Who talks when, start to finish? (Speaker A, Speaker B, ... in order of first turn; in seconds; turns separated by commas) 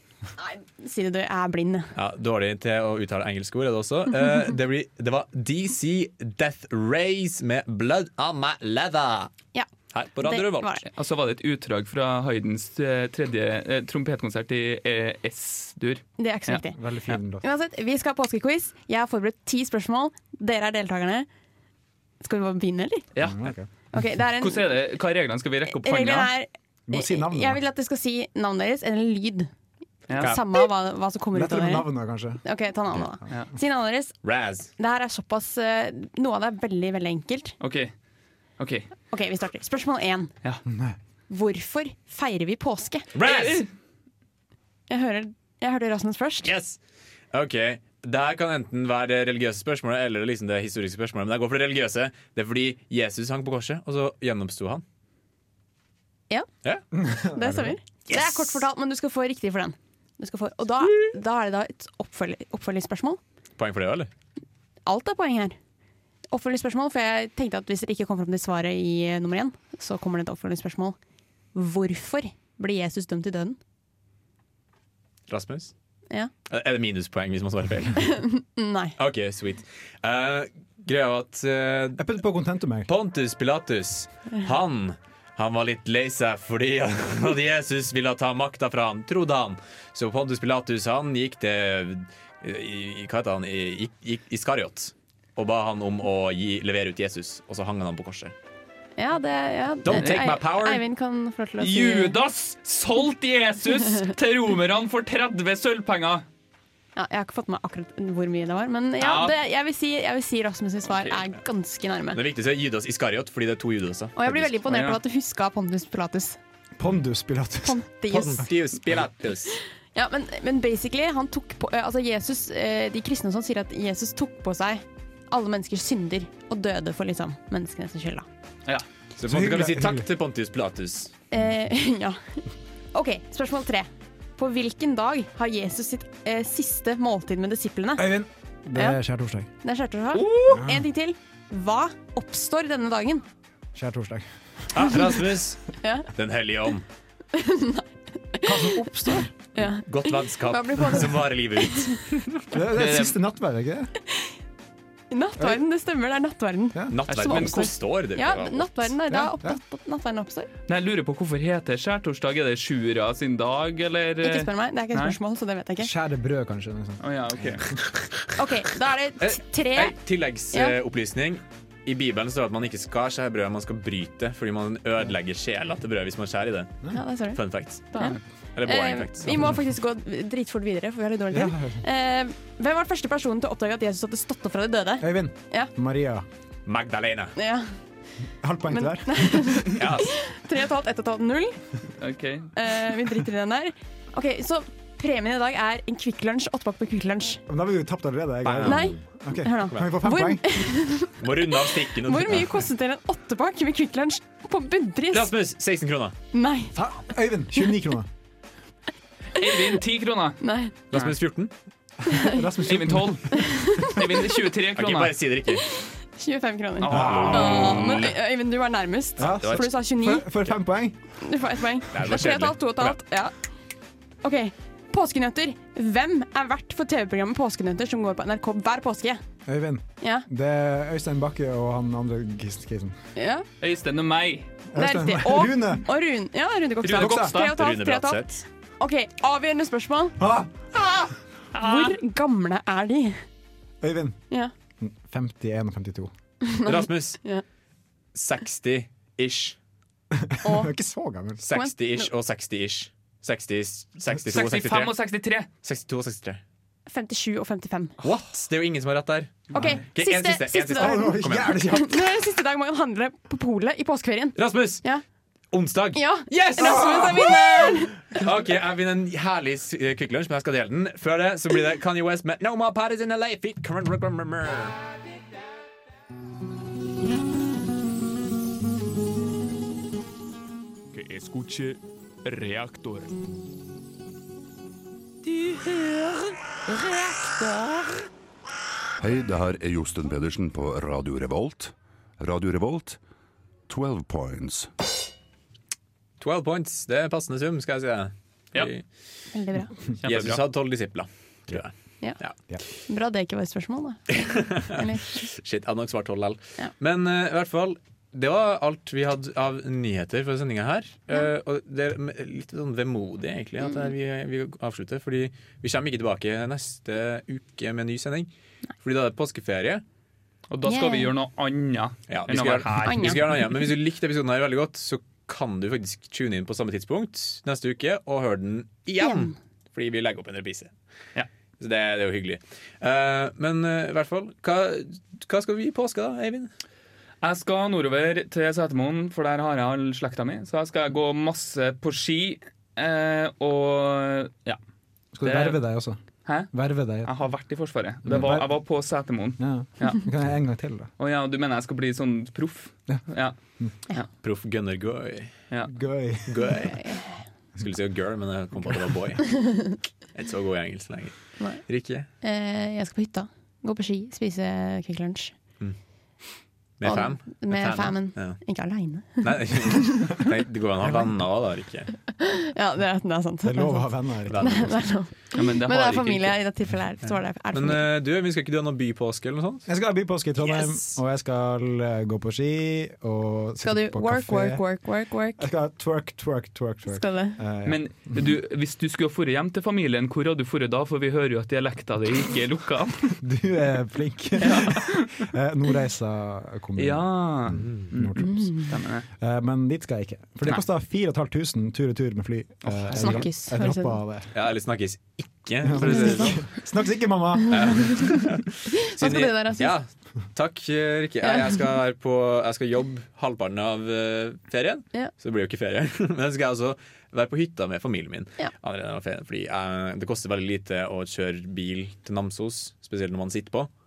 Speaker A: 0.4-1.9, Speaker B: 1.9-9.3, Speaker A: 9.5-10.9, Speaker B: 9.9-10.7, Speaker C: 10.9-17.2, Speaker A: 16.2-16.8, Speaker D: 16.7-17.4, Speaker A: 17.4-21.3, Speaker A: 22.2-23.1, Speaker C: 23.1-26.3, Speaker D: 23.2-23.7, Speaker A: 23.9-24.7, Speaker A: 25.7-29.5, Speaker D: 26.9-27.6, Speaker C: 30.1-30.3, Speaker A: 30.1-31.9, Speaker D: 31.3-33.3, Speaker A: 32.4-37.5, Speaker B: 34.2-34.7, Speaker C: 37.6-37.9, Speaker C: 38.6-38.9, Speaker A: 39.1-40.3, Speaker D: 40.7-41.0, Speaker A: 41.3-43.1, Speaker B: 43.1-43.6, Speaker C: 43.2-43.7, Speaker A: 44.9-46.5, Speaker B: 46.4-46.8, Speaker B: 47.3-54.8, Speaker D: 56.9-57.7, Speaker A: 57.3-63.2, Speaker B: 58.1-58.6, Speaker B: 63.6-64.1, Speaker A: 64.8-65.6, Speaker A: 66.3-71.0, Speaker A: 71.5-73.6, Speaker B: 75.3-75.7, Speaker B: 76.5-78.2, Speaker A: 78.3-78.9, Speaker B: 79.0-82.0, Speaker D: 82.0-82.9, Speaker B: 82.8-98.3, Speaker A: 99.0-102.2, Speaker B: 99.8-100.8, Speaker C: 99.9-100.2, Speaker C: 101.6-106.2, Speaker A: 107.0-112.2, Speaker C: 109.0-109.3, Speaker B: 110.9-111.3, Speaker B: 112.1-114.6, Speaker A: 114.2-116.4, Speaker C: 114.7-115.0, Speaker D: 116.8-118.5, Speaker A: 117.6-118.5, Speaker B: 118.2-119.6, Speaker A: 119.9-128.2, Speaker B: 129.2-131.1, Speaker D: 129.2-130.1, Speaker A: 131.3-138.1, Speaker D: 138.0-139.5, Speaker A: 138.7-139.0, Speaker A: 139.6-143.2, Speaker C: 140.1-140.6, Speaker D: 140.5-140.8, Speaker D: 143.7-144.9, Speaker B: 144.7-146.8, Speaker A: 145.8-146.1, Speaker A: 147.3-151.8, Speaker D: 148.4-149.3, Speaker B: 149.7-152.4, Speaker D: 152.5-153.9, Speaker C: 152.7-153.2, Speaker A: 155.1-160.5, Speaker D: 156.7-157.0, Speaker B: 156.9-158.9, Speaker C: 157.1-157.8, Speaker D: 159.1-159.6, Speaker C: 160.7-165.2, Speaker A: 164.2-165.9, Speaker D: 165.8-167.7, Speaker C: 167.0-167.7, Speaker A: 168.3-170.0, Speaker B: 169.2-179.6, Speaker A: 176.9-185.7, Speaker D: 179.3-179.6, Speaker D: 181.3-181.8, Speaker D: 185.0-186.2, Speaker B: 186.7-187.3, Speaker A: 187.3-187.8, Speaker D: 188.4-189.8, Speaker A: 188.7-191.8, Speaker B: 189.8-190.1, Speaker C: 192.0-192.5, Speaker A: 192.5-197.4, Speaker D: 197.5-200.5, Speaker B: 198.4-199.0, Speaker A: 198.6-205.3, Speaker B: 201.2-202.6, Speaker B: 205.1-206.2, Speaker A: 206.3-206.7, Speaker D: 206.8-208.1, Speaker C: 209.4-210.4, Speaker A: 210.4-210.7, Speaker B: 210.9-211.5, Speaker D: 212.1-213.6, Speaker C: 212.6-215.1, Speaker B: 214.7-215.7, Speaker A: 215.8-220.6, Speaker C: 216.8-217.9, Speaker D: 216.9-217.7, Speaker B: 216.9-218.1, Speaker D: 219.2-221.2, Speaker B: 219.3-219.7, Speaker A: 221.2-229.2, Speaker B: 221.9-223.0, Speaker D: 229.4-233.0, Speaker A: 230.0-230.2, Speaker A: 233.2-233.4, Speaker C: 233.6-234.5, Speaker D: 234.7-235.9, Speaker A: 234.7-240.2, Speaker C: 236.8-237.7, Speaker D: 236.9-237.3, Speaker B: 237.5-238.4, Speaker D: 240.2-241.1, Speaker C: 241.5-241.9, Speaker A: 241.6-243.2, Speaker D: 243.8-244.2, Speaker D: 244.8-246.1, Speaker A: 246.5-247.4, Speaker B: 246.6-247.4, Speaker B: 248.1-249.6, Speaker D: 250.3-251.4, Speaker A: 250.4-250.7, Speaker A: 251.4-252.1, Speaker B: 251.4-254.9, Speaker C: 254.3-255.5, Speaker B: 255.6-256.4, Speaker A: 256.9-257.9, Speaker B: 258.0-261.8, Speaker A: 259.5-265.0, Speaker D: 259.5-259.8, Speaker D: 260.7-262.0, Speaker B: 264.4-264.9, Speaker B: 265.5-274.8, Speaker A: 265.9-268.1, Speaker E: 280.9-283.1, Speaker F: 289.0-293.0, Speaker F: 293.7-294.7, Speaker B: 296.2-299.2, Speaker A: 299.3-299.8, Speaker C: 300.0-300.4, Speaker B: 300.0-302.4, Speaker A: 302.0-305.2, Speaker B: 304.6-319.8, Speaker A: 313.6-313.9, Speaker C: 320.5-323.5, Speaker A: 320.7-321.1, Speaker B: 322.1-330.7, Speaker A: 322.8-323.2, Speaker A: 329.0-329.3, Speaker B: 331.6-336.5, Speaker C: 337.2-344.6, Speaker D: 345.1-347.1, Speaker C: 345.2-350.1, Speaker D: 348.0-348.9, Speaker D: 349.4-350.9, Speaker C: 351.0-353.4, Speaker B: 354.2-355.4, Speaker D: 355.7-356.6, Speaker B: 356.2-362.1, Speaker A: 356.7-357.2, Speaker A: 361.4-365.4, Speaker B: 365.6-371.9, Speaker A: 366.8-369.8, Speaker D: 370.8-371.2, Speaker A: 372.3-377.9, Speaker D: 373.4-374.7, Speaker B: 374.3-374.9, Speaker C: 375.3-376.4, Speaker B: 377.0-379.7, Speaker D: 379.6-384.8, Speaker B: 380.4-381.0, Speaker A: 383.6-385.5, Speaker D: 385.4-388.3, Speaker A: 386.9-387.4, Speaker C: 387.6-393.2, Speaker D: 393.2-404.3, Speaker C: 394.4-395.2, Speaker C: 396.8-399.0, Speaker A: 398.2-398.7, Speaker C: 402.6-403.3, Speaker A: 402.9-404.0, Speaker B: 404.3-406.5, Speaker D: 405.6-407.9, Speaker A: 405.8-406.6, Speaker A: 407.4-407.8, Speaker B: 407.5-423.7, Speaker A: 408.9-409.7, Speaker A: 411.2-411.6